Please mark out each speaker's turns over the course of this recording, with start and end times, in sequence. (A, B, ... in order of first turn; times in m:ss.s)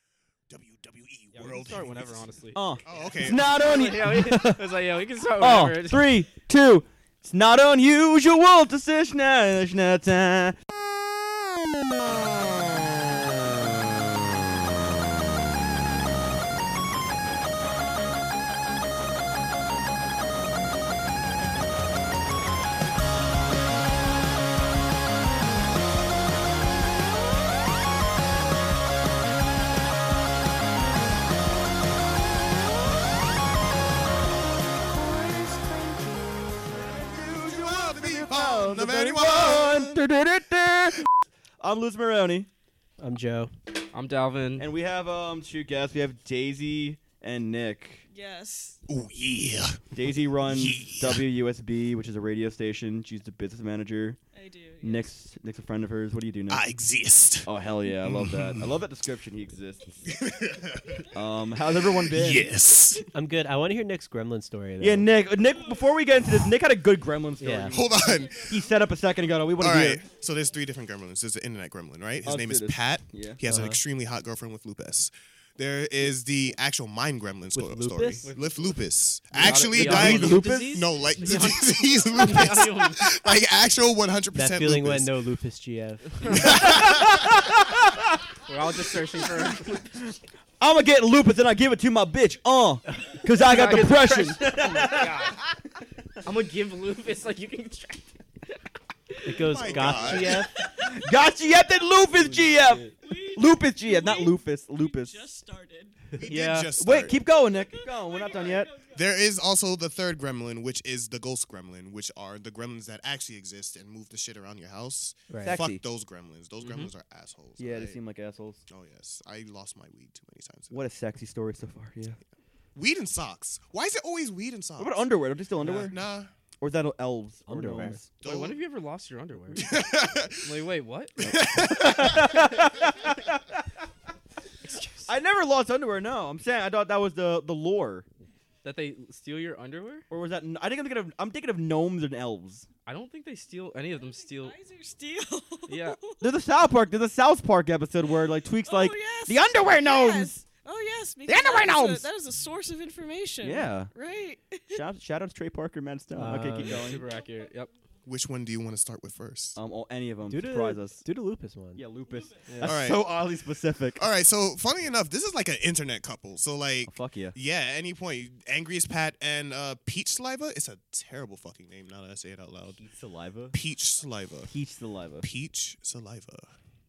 0:00.5-0:02.3 A
0:01.3-0:06.2 B
0:02.6-0:04.7 C
0:02.8-0:03.4 A
0:05.4-0:10.6 C
0:10.7-0:12.5 A
0:36.7-0:41.0 C
0:37.3-0:40.0 A
0:41.6-0:42.5 C
0:43.0-0:43.5 D
0:43.9-0:44.7 B
0:44.6-0:48.0 C
0:48.1-0:48.8 E
0:48.9-0:49.8 A
0:49.9-0:54.2 C
0:50.5-0:51.2 A
0:54.3-0:55.1 E
0:54.8-0:56.6 C
0:56.5-0:57.5 A
0:57.4-1:00.0 C
0:58.0-0:58.7 A
1:00.0-1:01.1 A
1:01.1-1:02.5 C
1:01.6-1:03.0 A
1:03.1-1:05.1 D
1:04.8-1:10.0 C
1:07.4-1:07.8 D
1:07.7-1:08.6 A
1:08.1-1:08.5 E
1:09.6-1:25.1 A
1:12.2-1:13.4 C
1:13.5-1:13.8 D
1:17.5-1:18.2 D
1:18.2-1:18.8 B
1:19.3-1:20.6 D
1:19.4-1:23.2 B
1:24.3-1:26.2 D
1:26.2-1:26.8 B
1:26.3-1:27.4 A
1:26.4-1:28.2 C
1:28.4-1:30.0 B
1:30.6-1:35.3 C
1:33.4-1:35.4 B
1:36.2-1:38.6 B
1:39.2-1:40.5 D
1:39.4-1:40.4 A
1:40.5-1:42.0 E
1:40.8-1:45.2 C
1:42.2-1:42.9 B
1:43.0-1:46.0 E
1:46.2-1:47.2 A
1:46.2-1:46.7 B
1:46.8-1:48.7 C
1:47.4-1:49.2 E
1:48.8-1:58.0 A
1:55.3-1:55.8 D
1:55.4-1:55.8 C
1:56.6-1:56.9 B
1:57.6-1:58.6 C
1:58.7-2:00.8 A
2:00.7-2:02.2 C
2:02.8-2:05.0 A
2:04.8-2:05.9 C
2:05.7-2:06.3 A
2:06.6-2:08.0 C
2:07.5-2:08.0 D
2:08.2-2:08.6 A
2:08.2-2:09.6 B
2:09.5-2:10.6 A
2:10.4-2:11.2 B
2:11.2-2:12.5 A
2:11.2-2:13.6 C
2:15.0-2:18.1 C
2:18.6-2:20.0 B
2:20.1-2:22.7 C
2:22.8-2:24.6 B
2:23.9-2:26.3 E
2:25.7-2:26.0 B
2:26.2-2:30.4 C
2:28.6-2:34.8 E
2:31.2-2:32.0 C
2:33.4-2:33.9 C
2:34.7-2:37.1 C
2:36.1-2:36.8 D
2:36.6-2:37.7 B
2:38.0-2:39.6 A
2:39.6-2:41.0 C
2:40.3-2:41.8 D
2:41.8-2:44.0 C
2:42.5-2:42.8 B
2:42.6-2:43.0 A
2:44.0-2:52.8 A
2:46.8-2:47.4 C
2:52.8-2:53.6 C
2:53.5-2:54.5 A
2:54.5-2:55.3 C
2:55.2-2:56.5 A